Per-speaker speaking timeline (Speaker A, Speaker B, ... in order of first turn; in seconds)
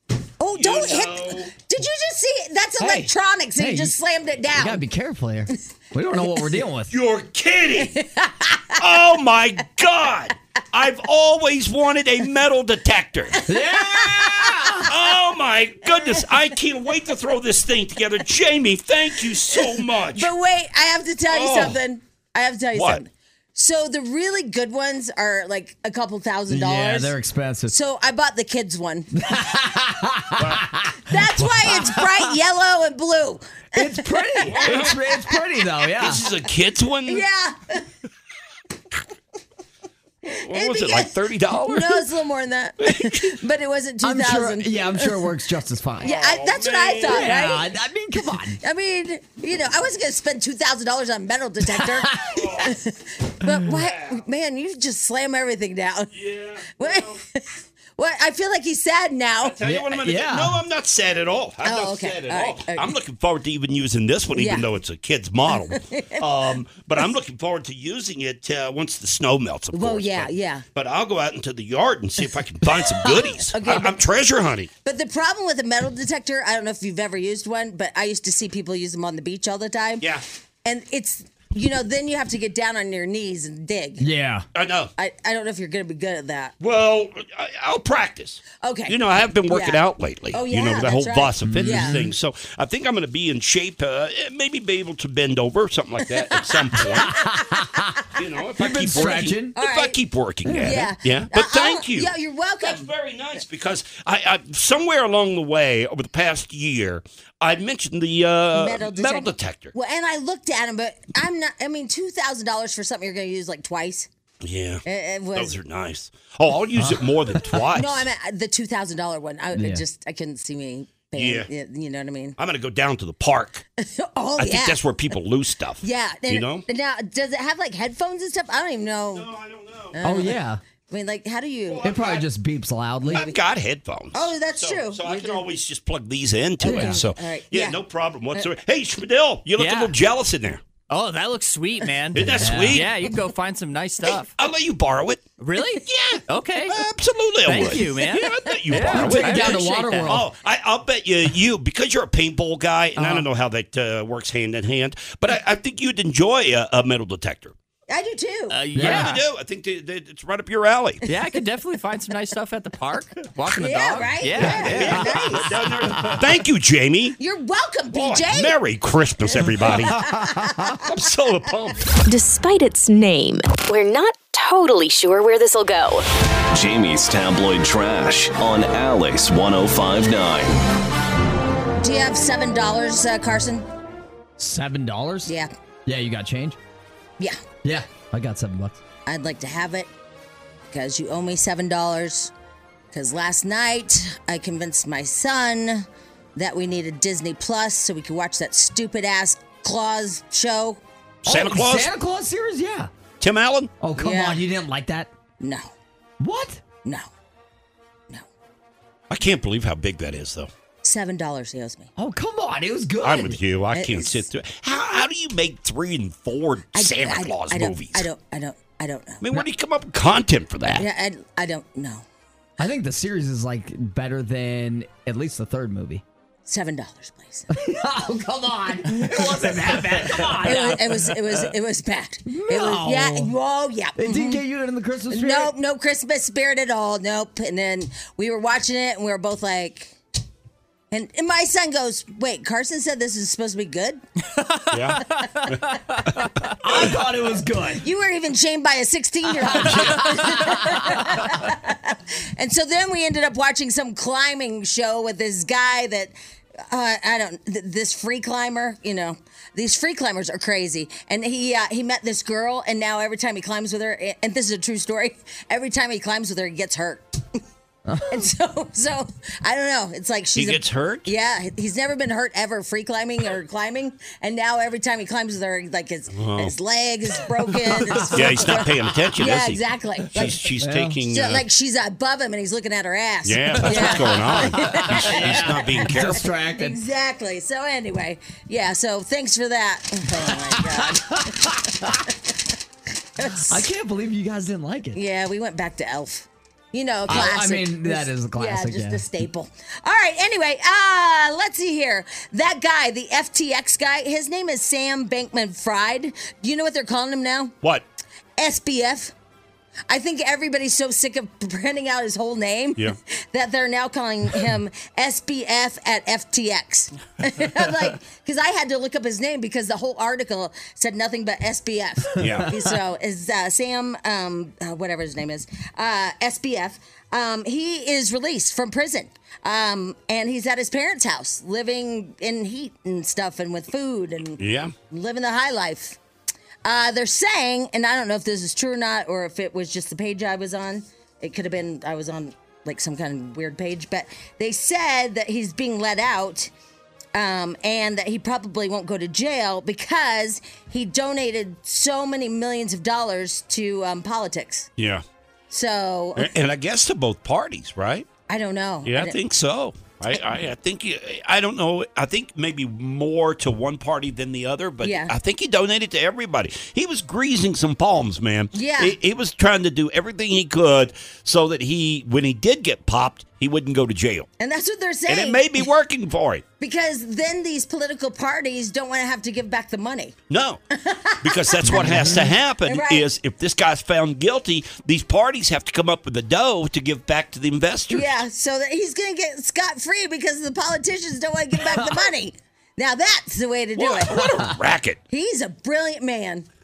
Speaker A: 0.4-4.8, 6.2-6.5, 7.8-8.8, 13.4-14.8, 15.8-16.3, 19.5-27.1, 27.7-29.3, 31.1-35.6, 37.1-37.9, 40.2-45.3, 46.0-47.7, 48.5-56.1, 56.8-57.4, 58.0-59.6, 61.6-62.9, 64.3-64.7, 65.5-66.4, 69.7-70.6, 72.7-74.0, 74.8-80.1, 80.6-84.1, 85.0-86.5, 88.6-89.8, 90.3-92.1, 96.2-97.4, 99.5-102.9, 108.5-114.1, 114.8-115.6, 117.7-122.4, 123.8-124.8, 125.8-129.3, 129.9-131.9, 133.1-133.3, 134.1-135.4, 136.6-137.8, 157.9-158.6, 163.5-165.6, 167.2-168.6, 169.6-170.8, 181.8-183.7, 185.2-185.5, 189.1-189.9, 190.7-192.3, 192.9-200.8, 203.9-204.4, 205.4-205.7, 206.8-207.1, 210.8-211.9, 213.7-214.2, 216.7-219.2, 220.8-222.1, 226.4-227.5, 230.4-234.4, 235.1-240.0, 240.9-244.0, 247.8-267.4, 268.1-280.5, 281.1-292.1, 293.1-293.7, 294.9-307.5, 308.4-309.1, 309.9-336.0, 336.6-346.5, 347.1-354.7, 355.5-356.3, 358.3-359.2, 364.8-365.1, 368.5-369.0, 374.4-375.7, 376.6-380.1, 380.7-383.1, 387.9-394.4, 395.1-396.5
Speaker B: 0.5-1.5, 6.9-8.0, 8.8-13.4, 14.7-20.3, 21.3-21.8, 22.7-23.0, 30.4-30.6, 34.4-35.0, 36.0-37.2, 40.3-42.1, 42.8-43.4, 46.0-47.4, 52.3-52.7, 53.6-54.2, 56.1-57.2, 59.4-74.7, 84.5-84.9, 86.6-97.2, 98.1-109.7, 114.4-118.0, 121.1-121.5, 122.4-123.6, 124.4-126.6, 129.1-130.0, 131.7-132.2, 133.1-140.6, 142.1-143.1, 144.1-145.2, 145.8-157.5, 158.8-161.0, 164.3-167.2, 167.9-170.0, 170.8-171.8, 201.2-201.9, 203.2-203.7, 209.1-210.5, 213.0-218.1, 219.2-220.9, 244.7-245.6, 270.3-271.1, 276.1-276.5, 278.1-279.6, 280.1-281.4, 283.2-286.2, 322.2-322.5, 334.4-334.7, 354.8-355.0, 356.1-358.1, 358.8-374.3, 375.1-376.4, 380.3-380.6, 381.2-388.1, 393.8-395.0
Speaker C: 2.8-3.9, 4.5-6.9, 13.5-14.9, 26.5-27.7, 29.2-31.1, 33.7-36.2, 44.0-46.1, 47.0-48.6, 51.7-52.4, 59.6-60.6, 84.0-84.4, 91.5-92.1, 97.0-97.9, 98.6-99.5, 100.5-100.8, 116.8-117.6, 119.5-119.8, 130.0-130.6, 131.8-133.2, 136.6-137.0, 142.2-143.0, 148.7-150.2, 158.8-159.2, 184.4-185.3, 185.8-186.6, 187.6-188.8, 201.2-202.9, 203.8-205.1, 206.2-206.6, 212.0-213.4, 222.6-226.0, 227.5-231.2, 232.3-233.3, 234.0-235.5, 246.6-247.8, 249.5-251.3, 267.9-268.2, 277.8-278.1, 280.6-281.0, 283.6-286.8, 290.3-292.0, 293.2-295.0, 297.1-299.0, 381.6-382.3
Speaker D: 139.6-139.9, 140.9-144.3, 145.4-146.8, 147.4-150.2, 152.9-153.3, 158.5-159.2, 161.0-165.1
Speaker E: 172.1-176.1
Speaker F: 176.5-180.6